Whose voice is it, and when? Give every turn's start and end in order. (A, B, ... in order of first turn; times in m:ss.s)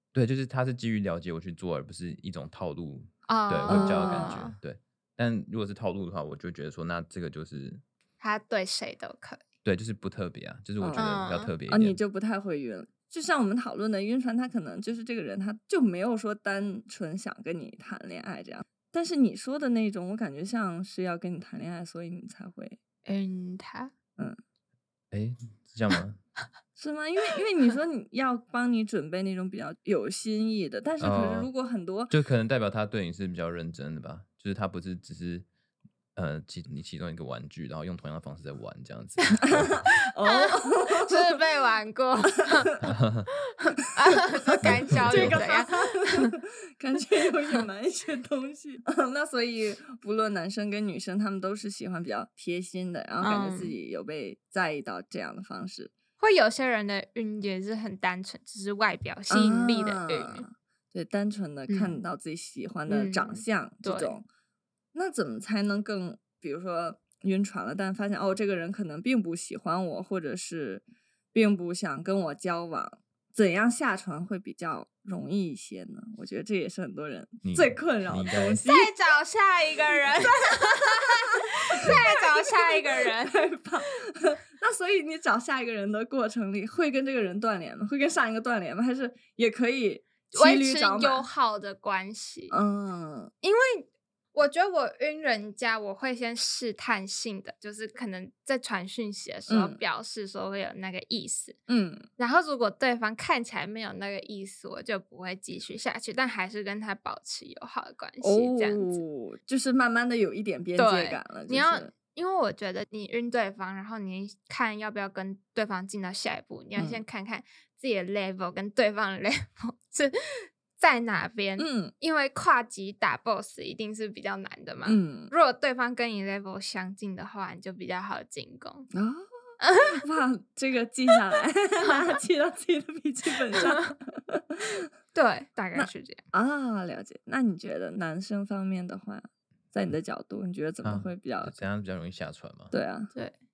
0:00.1-0:07.8 A
0:03.3-0:04.6 B
0:03.7-0:04.4 C
0:08.2-0:09.4 B
0:09.6-0:12.0 A
0:10.8-0:22.8 C
0:10.9-0:11.5 B
0:23.0-0:23.9 B
0:25.1-0:26.2 A
0:26.8-0:32.1 C
0:31.0-0:31.5 A
0:32.1-0:35.5 A
0:36.2-0:39.8 A
0:39.4-0:41.3 C
0:39.8-0:42.8 B
0:42.8-0:43.3 A
0:43.6-0:46.3 B
0:44.6-0:46.3 C
0:44.6-0:45.4 A
0:46.8-0:55.9 C
0:53.2-0:53.8 B
0:56.2-1:00.4 B
0:59.3-1:04.2 C
1:01.7-1:02.0 B
1:02.9-1:04.2 B
1:04.9-1:18.9 C
1:17.4-1:18.6 A
1:18.6-1:23.4 B
1:20.1-1:20.5 C
1:21.8-1:31.3 C
1:30.3-1:32.6 B
1:32.5-1:33.3 C
1:33.4-1:41.6 B
1:39.5-1:39.8 C
1:41.7-1:42.1 C
1:42.2-1:49.0 B
1:48.2-1:51.9 C
1:50.8-2:08.9 B
1:56.8-1:57.0 C
2:01.6-2:01.9 C
2:04.8-2:05.3 C
2:08.9-2:09.3 C
2:09.6-2:10.0 B
2:09.8-2:14.8 C
2:11.8-2:12.2 B
2:13.6-2:13.9 B
2:15.1-2:16.2 B
2:15.7-2:21.6 C
2:20.8-2:22.8 A
2:22.7-2:23.1 C